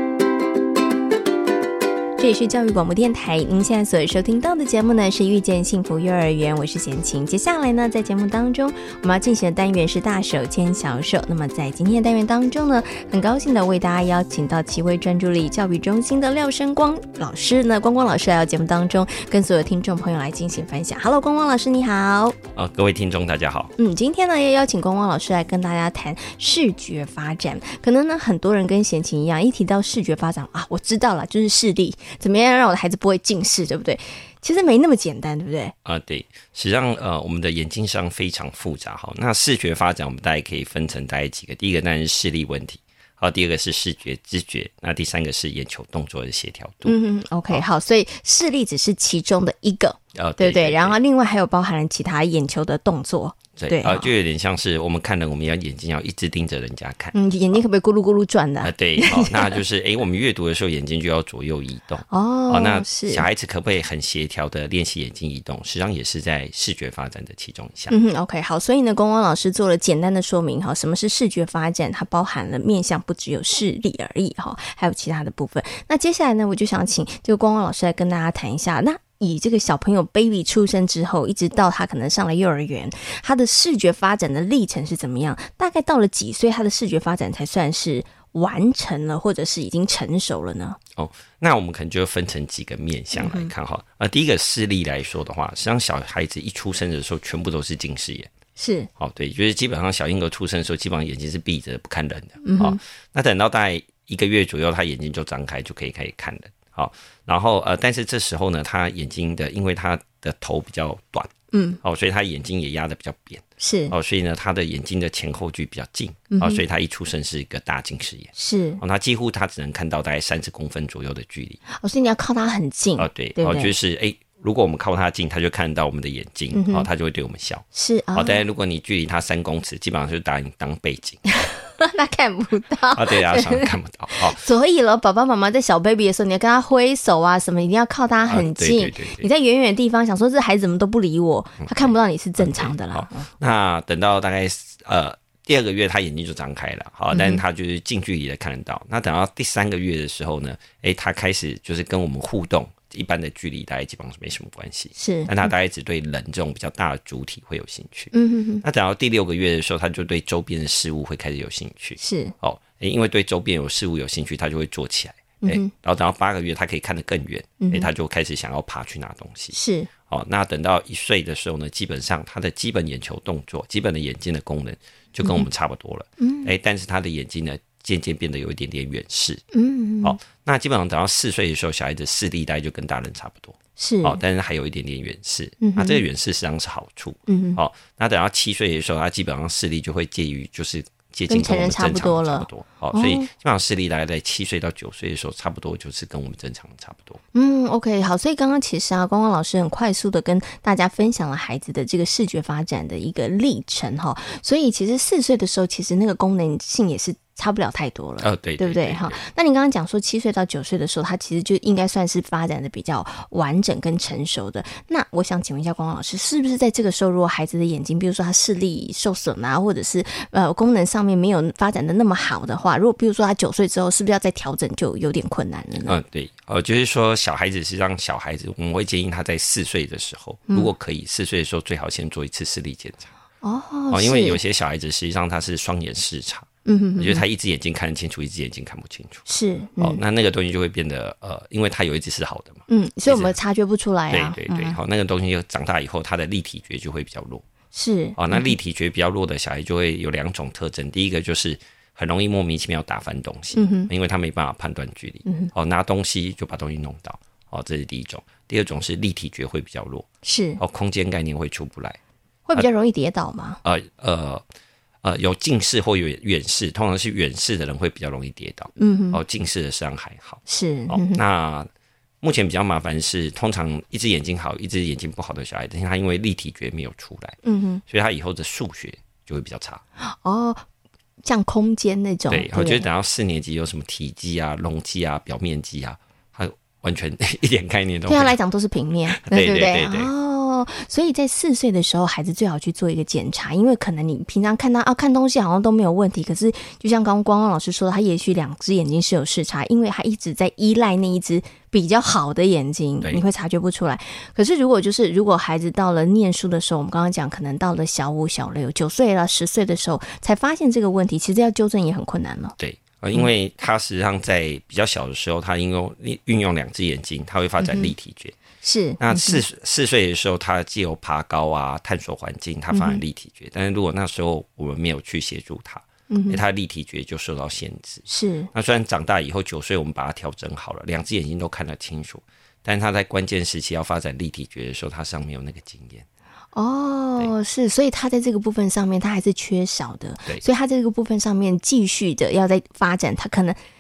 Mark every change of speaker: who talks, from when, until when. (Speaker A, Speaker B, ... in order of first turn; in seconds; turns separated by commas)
Speaker A: 2.2-22.4, Speaker B: 22.5-23.7, Speaker A: 23.8-35.7, Speaker B: 35.8-46.9, Speaker A: 46.8-54.1, Speaker B: 50.1-51.0, Speaker B: 53.5-57.6, Speaker A: 57.1-59.6, Speaker B: 58.6-67.9, Speaker A: 62.1-63.2, Speaker A: 67.9-90.8, Speaker B: 91.0-98.3, Speaker A: 93.1-93.5, Speaker A: 98.6-98.9, Speaker B: 99.0-111.3, Speaker A: 102.4-102.8, Speaker A: 111.5-111.8, Speaker B: 111.8-121.6, Speaker A: 113.6-113.9, Speaker A: 116.3-116.6, Speaker A: 118.3-118.8, Speaker A: 121.8-123.7, Speaker B: 123.0-131.2, Speaker A: 126.5-126.9, Speaker A: 127.7-128.4, Speaker A: 131.4-143.3, Speaker B: 132.9-134.4, Speaker B: 138.2-139.2, Speaker B: 141.6-169.5, Speaker A: 147.1-147.4, Speaker A: 154.9-155.5, Speaker A: 158.1-158.6, Speaker A: 162.0-162.3, Speaker A: 165.4-165.7, Speaker A: 167.6-167.9, Speaker A: 169.5-169.9, Speaker B: 170.1-179.4, Speaker A: 176.2-176.5, Speaker A: 179.5-180.2, Speaker B: 180.0-197.2, Speaker A: 183.8-184.2, Speaker A: 185.6-186.0, Speaker A: 187.3-187.6, Speaker A: 191.3-193.3, Speaker A: 197.3-226.0, Speaker B: 208.2-209.2, Speaker B: 225.8-233.1, Speaker A: 233.4-234.4, Speaker B: 233.9-239.3, Speaker A: 236.6-237.2, Speaker A: 239.3-240.0, Speaker B: 239.8-243.3, Speaker A: 242.7-244.8, Speaker B: 244.1-247.4, Speaker A: 247.7-248.6, Speaker B: 248.2-260.1, Speaker A: 253.5-253.9, Speaker A: 255.2-255.5, Speaker A: 260.2-260.6, Speaker B: 260.6-262.0, Speaker A: 262.5-263.6, Speaker B: 263.6-264.4, Speaker B: 265.0-271.7, Speaker A: 268.8-269.2, Speaker A: 270.5-271.2, Speaker B: 272.2-279.8, Speaker A: 277.4-277.8, Speaker A: 280.0-280.6, Speaker A: 281.2-282.8, Speaker B: 282.3-288.4, Speaker A: 288.1-312.5, Speaker B: 289.1-290.1, Speaker B: 312.6-318.4, Speaker A: 317.6-317.9, Speaker A: 318.6-319.4, Speaker B: 319.0-336.0, Speaker A: 322.7-323.0, Speaker A: 326.1-326.4, Speaker A: 328.1-328.5, Speaker A: 336.5-343.6